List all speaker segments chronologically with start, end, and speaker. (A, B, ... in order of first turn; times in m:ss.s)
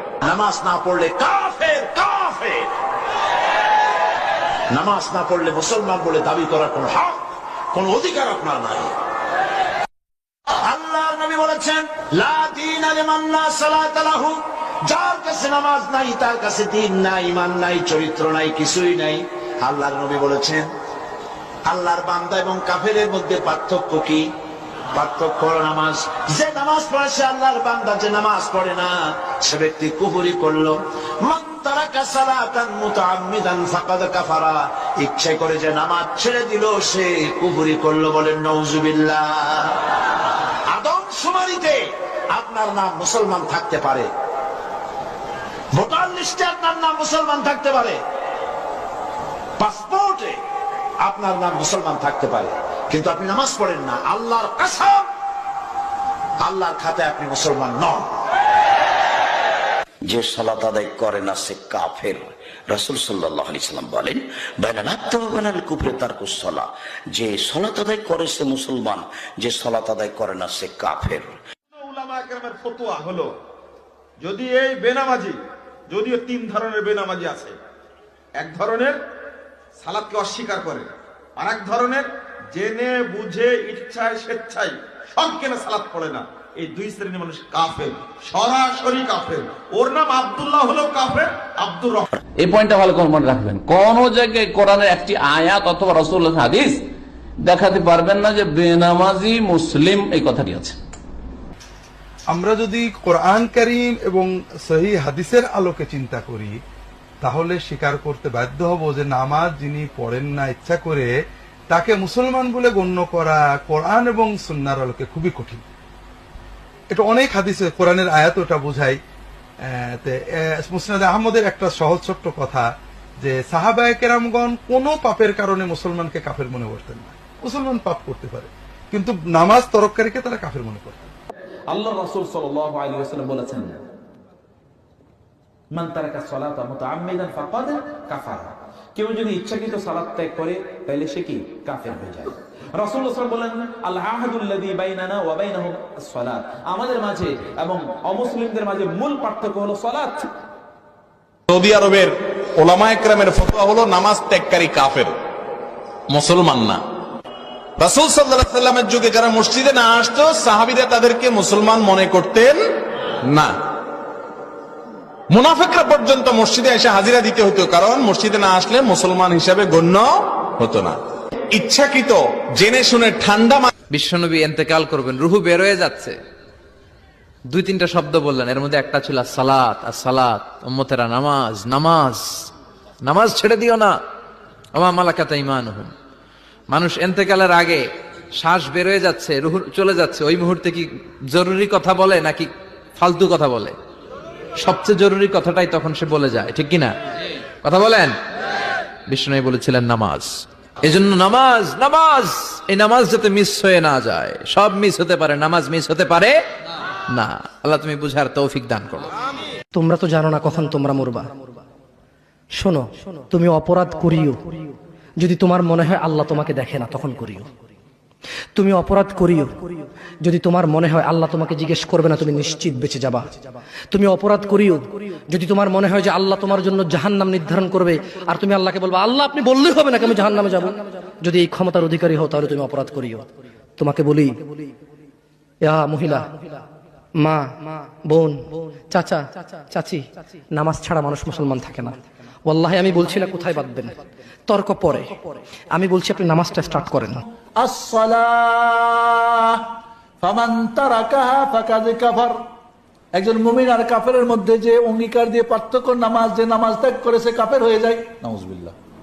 0:00.2-0:02.7 A
0:04.7-0:07.2 A
0:07.7-0:08.9 A
0:10.6-0:20.7 A
0:21.6-0:24.2 A
0:24.9-0:39.8 A
0:40.7-0:44.1 A
0:45.7-0:48.0 A
0:49.6-0:50.4 A
0:51.0-0:55.1 A
0:56.4-0:58.1 A
1:00.0-1:11.4 B
1:11.7-1:13.3 C
1:14.2-1:15.4 C
1:15.9-1:17.5 C
1:18.4-1:19.0 C
1:19.8-1:32.0 C
1:32.4-1:36.8 D
1:37.4-1:40.8 D
1:42.3-1:46.6 E
1:47.2-1:51.1 E
1:51.7-1:55.6 E
1:56.9-1:59.0 E
1:59.6-2:02.6 E
2:03.2-2:11.1 E
2:11.7-2:13.8 F
2:15.7-2:30.3 F
2:31.5-2:35.1 G
2:36.1-2:36.8 G
2:37.8-2:42.6 G
2:45.3-2:51.0 G
2:51.5-2:53.7 G
2:53.9-2:56.2 H
2:57.5-3:02.4 H
3:03.0-3:04.0 H
3:04.7-3:05.9 H
3:06.7-3:07.8 H
3:08.4-3:13.8 H
3:14.6-3:16.9 H
3:17.6-3:18.1 H
3:19.1-3:20.3 H
3:20.8-3:26.4 H
3:27.1-3:29.1 H
3:29.7-3:31.2 I
3:32.5-3:37.4 I
3:38.6-3:43.3 I
3:43.9-3:53.2 I
3:53.8-3:54.6 I
3:55.6-3:56.4 I
3:57.2-4:00.0 I
4:00.5-4:07.2 I
4:07.6-4:12.4 J
4:13.1-4:18.7 J